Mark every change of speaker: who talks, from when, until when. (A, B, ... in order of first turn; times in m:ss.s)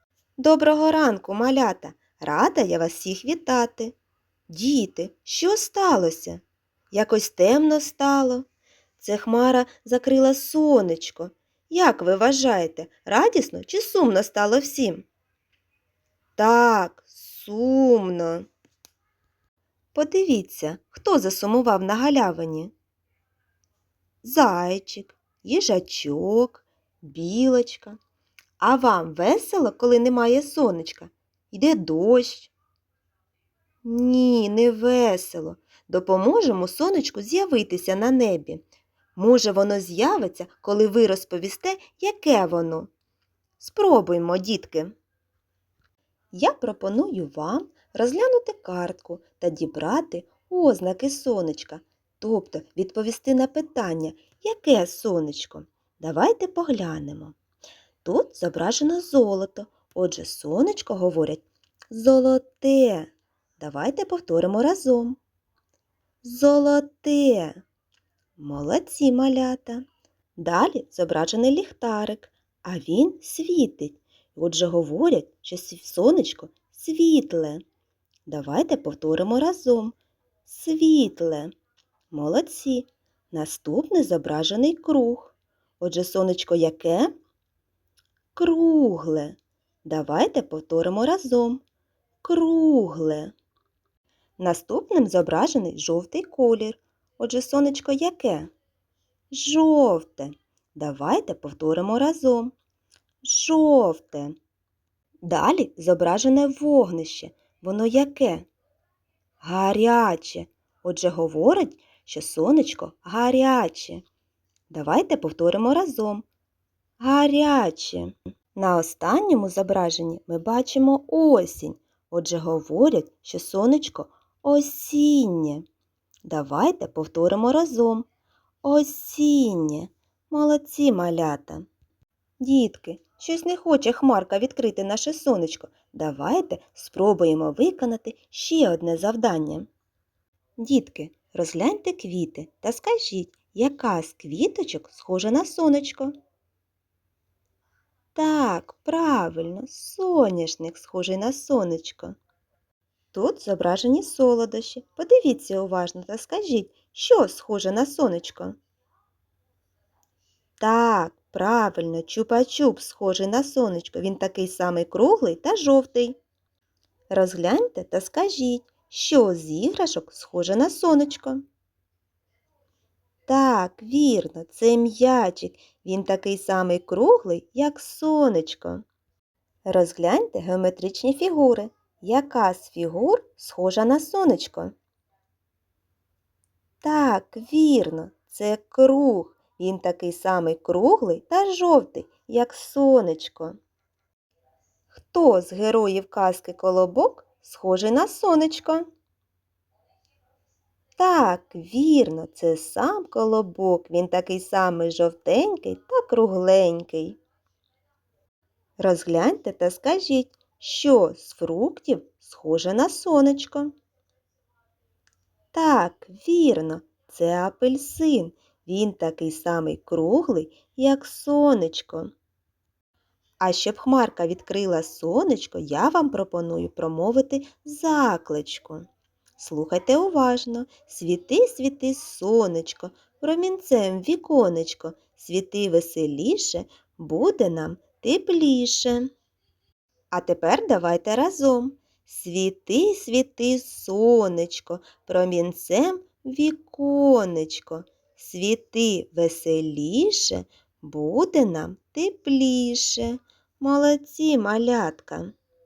0:00.4-0:03.9 A
0:04.5-0:08.4 A
0:09.0-0:15.0 A
0:16.4-0:18.5 A
0:19.9-0:22.7 A
0:24.2-0:28.0 A
0:28.6-0:32.5 A
0:33.8-0:38.6 A
0:39.2-0:42.9 A
0:43.6-0:45.0 A
0:46.3-0:57.4 A
0:58.0-1:05.2 A
1:06.2-1:07.6 A
1:08.4-1:09.8 A
1:10.4-1:17.6 A
1:18.3-1:20.0 A
1:20.5-1:21.5 A
1:22.1-1:27.1 A
1:28.4-1:31.6 A
1:32.2-1:33.3 A
1:34.4-1:38.5 A
1:39.3-1:42.5 A
1:43.2-1:44.4 A
1:45.2-1:48.5 A
1:49.4-1:54.0 A
1:54.7-1:56.2 A
1:57.0-2:05.6 A
2:06.2-2:08.1 A
2:08.6-2:11.6 A
2:12.4-2:19.7 A
2:20.6-2:26.1 A
2:28.2-2:32.2 A
2:33.1-2:38.6 A
2:40.6-2:46.2 A
2:47.1-2:51.4 A
2:53.3-2:58.8 A
2:59.6-3:04.7 A
3:06.8-3:13.6 A
3:14.9-3:18.9 A
3:21.0-3:27.2 A
3:28.8-3:33.7 A
3:35.5-3:42.1 A
3:43.4-3:59.1 A
4:00.1-4:15.3 A